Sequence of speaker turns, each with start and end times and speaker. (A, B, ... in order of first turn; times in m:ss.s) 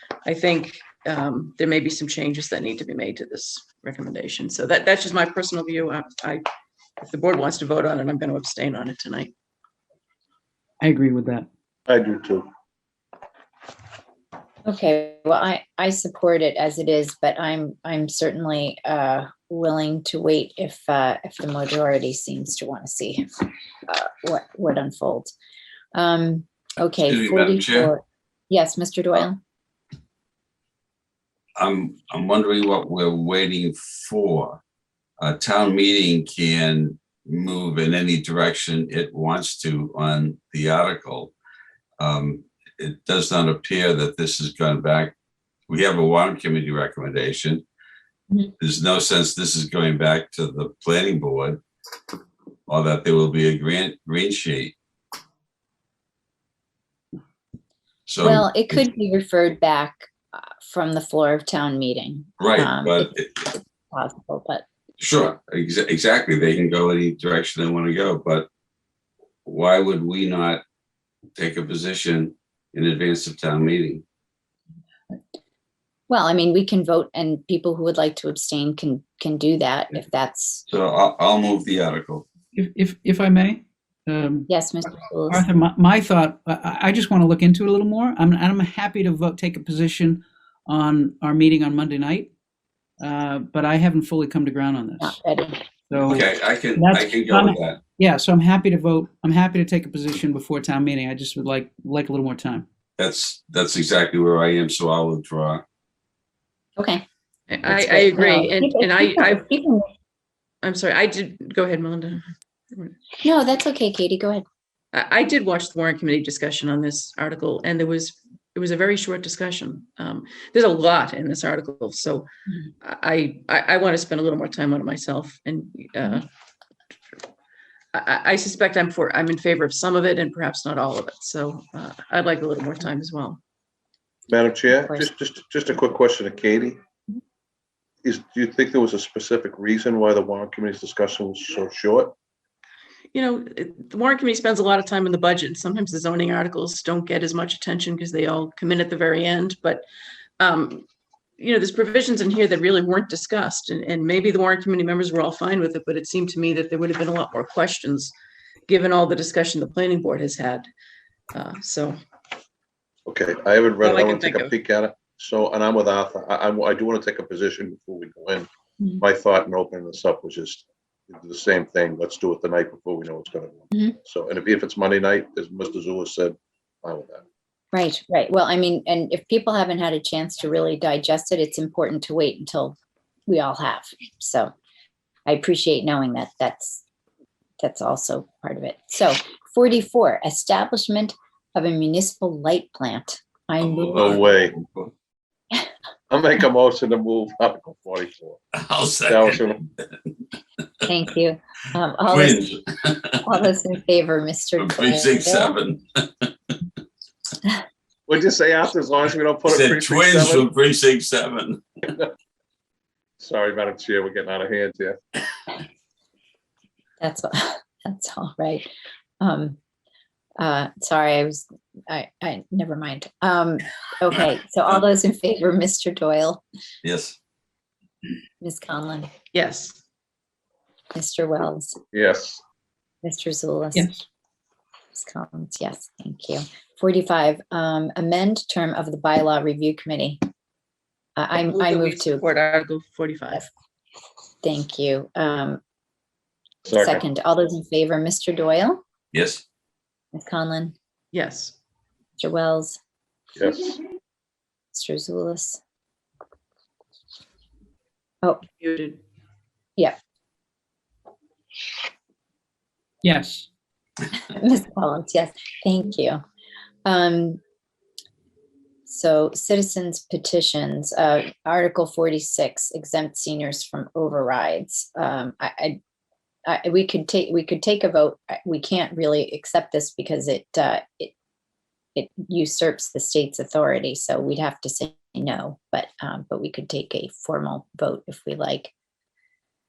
0:00.2-0:06.4 A
0:07.0-0:09.3 A
0:10.8-0:11.5 B
0:11.9-0:12.5 C
0:14.6-0:23.2 D
0:23.8-0:25.3 D
0:25.9-0:29.4 D
0:27.0-0:27.9 E
0:31.6-0:34.6 E
0:35.2-0:41.3 E
0:42.0-0:45.1 E
0:45.7-0:47.6 E
0:48.6-0:51.6 E
0:52.7-0:54.7 E
0:58.1-0:58.5 E
0:58.2-1:04.6 D
1:02.4-1:03.5 E
1:05.0-1:08.5 E
1:09.4-1:10.6 E
1:11.3-1:14.0 E
1:16.1-1:20.6 D
1:20.7-1:22.2 E
1:22.5-1:24.5 B
1:24.5-1:25.4 D
1:25.3-1:32.3 B
1:33.0-1:35.2 B
1:35.0-1:35.6 D
1:35.9-1:42.6 B
1:36.0-1:37.8 E
1:43.0-1:45.6 E
1:46.8-1:47.0 D
1:47.5-1:49.4 A
1:47.7-1:49.9 D
1:50.6-1:53.0 A
1:53.2-1:54.4 D
1:54.9-2:02.3 A
2:02.8-2:06.2 A
2:07.9-2:13.4 A
2:14.3-2:16.8 C
2:14.7-2:15.1 D
2:18.0-2:22.1 C
2:23.1-2:29.8 A
2:30.4-2:30.9 A
2:31.4-2:38.1 A
2:38.7-2:40.7 A
2:41.3-2:42.0 A
2:43.0-2:48.5 C
2:43.8-2:44.5 A
2:49.0-2:57.2 C
2:53.7-2:54.0 D
2:57.7-3:04.5 D
3:05.2-3:06.8 D
3:07.6-3:14.2 D
3:13.6-3:14.9 E
3:13.9-3:14.6 C
3:16.1-3:18.4 C
3:18.5-3:20.0 E
3:19.1-3:19.6 C
3:20.8-3:22.5 D
3:22.1-3:23.5 E
3:23.2-3:25.6 D
3:24.6-3:26.3 E
3:28.1-3:30.5 C
3:29.4-3:31.6 E
3:33.2-3:35.0 C
3:37.0-3:38.7 D
3:39.2-3:39.6 D
3:40.4-3:46.4 D
3:46.8-3:47.2 E
3:48.4-3:49.1 D
3:49.3-3:49.8 A
3:50.9-3:51.8 D
3:51.9-3:52.4 C
3:53.0-3:54.0 D
3:53.7-3:54.0 B
3:54.9-4:00.2 D
4:01.2-4:02.2 D
4:01.5-4:03.5 A
4:04.4-4:05.6 D
4:06.6-4:07.0 C
4:06.7-4:08.8 D
4:09.1-4:09.4 E
4:10.1-4:10.7 D
4:11.1-4:11.6 A
4:12.2-4:12.8 D
4:13.4-4:13.8 C
4:14.7-4:15.6 D
4:18.6-4:19.0 A
4:23.0-4:23.5 B
4:24.3-4:26.2 D
4:26.8-4:27.4 D
4:28.8-4:35.8 D
4:36.4-4:41.1 D
4:42.0-4:48.7 D